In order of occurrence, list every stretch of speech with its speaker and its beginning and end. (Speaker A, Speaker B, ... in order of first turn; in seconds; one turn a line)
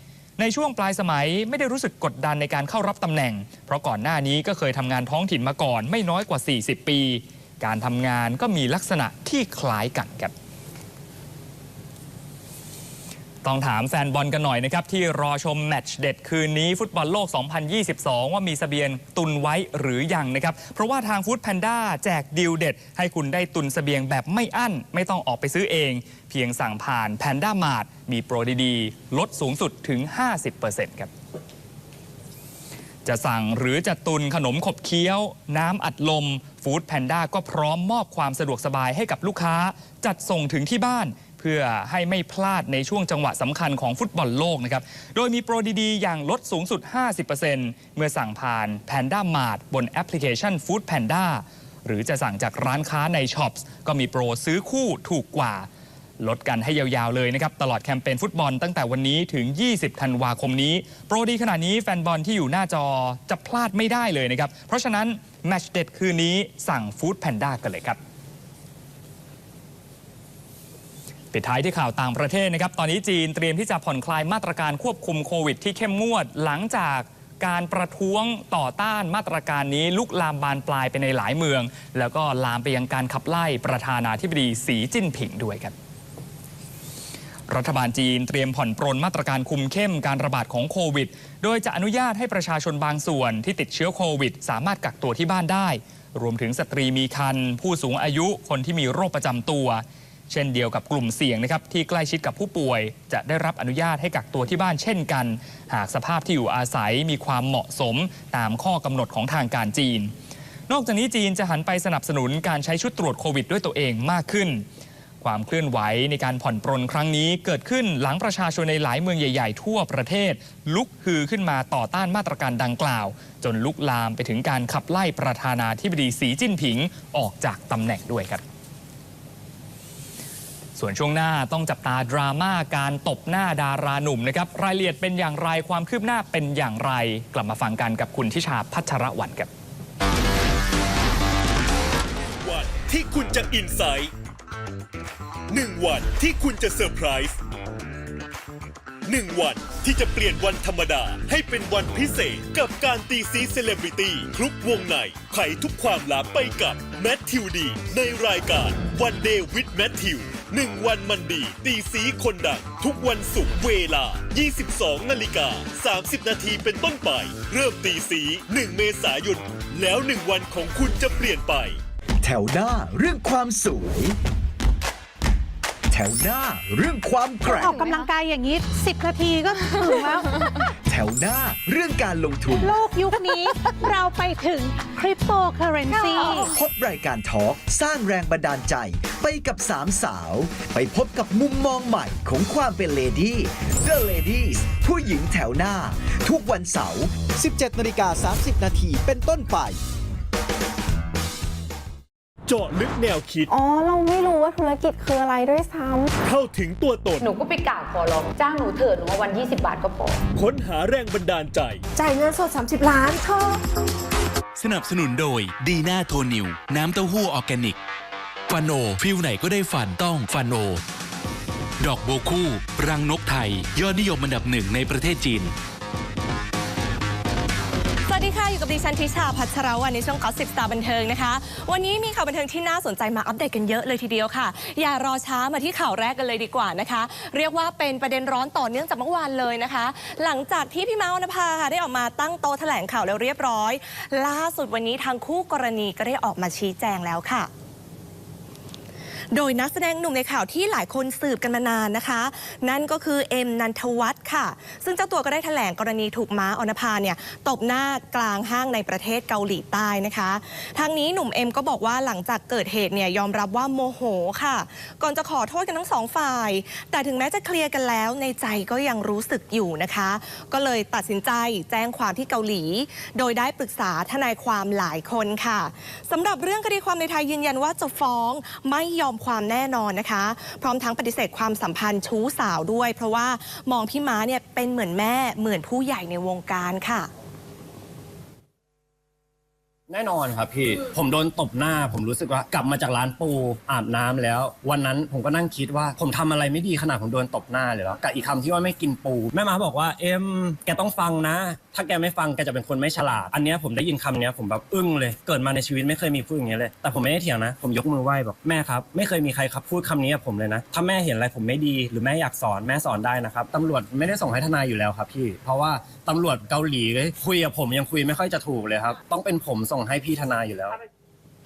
Speaker A: 0.4-10.3
Speaker A: 13.4-31.1
Speaker A: 33.0-55.7
Speaker A: 56.2-68.0
Speaker A: 71.3-85.7
Speaker A: 87.5-110.1
Speaker A: 110.7-114.6
Speaker A: 115.2-128.4
Speaker A: 130.8-139.5
Speaker B: 142.3-144.1
Speaker B: 145.5-147.4
Speaker B: 149.0-171.8
Speaker C: 172.2-174.2
Speaker C: 175.9-178.0
Speaker D: 177.4-180.4
Speaker C: 180.8-183.4
Speaker D: 182.6-186.5
Speaker C: 185.9-199.8
Speaker B: 202.5-203.5
Speaker E: 203.5-206.1
Speaker B: 206.2-207.3
Speaker F: 207.2-210.2
Speaker B: 210.3-211.8
Speaker D: 212.0-213.5
Speaker G: 214.6-217.8
Speaker G: 218.5-220.8
Speaker G: 221.8-225.5
Speaker H: 228.1-247.5
Speaker H: 249.3-287.1
Speaker I: 289.9-320.8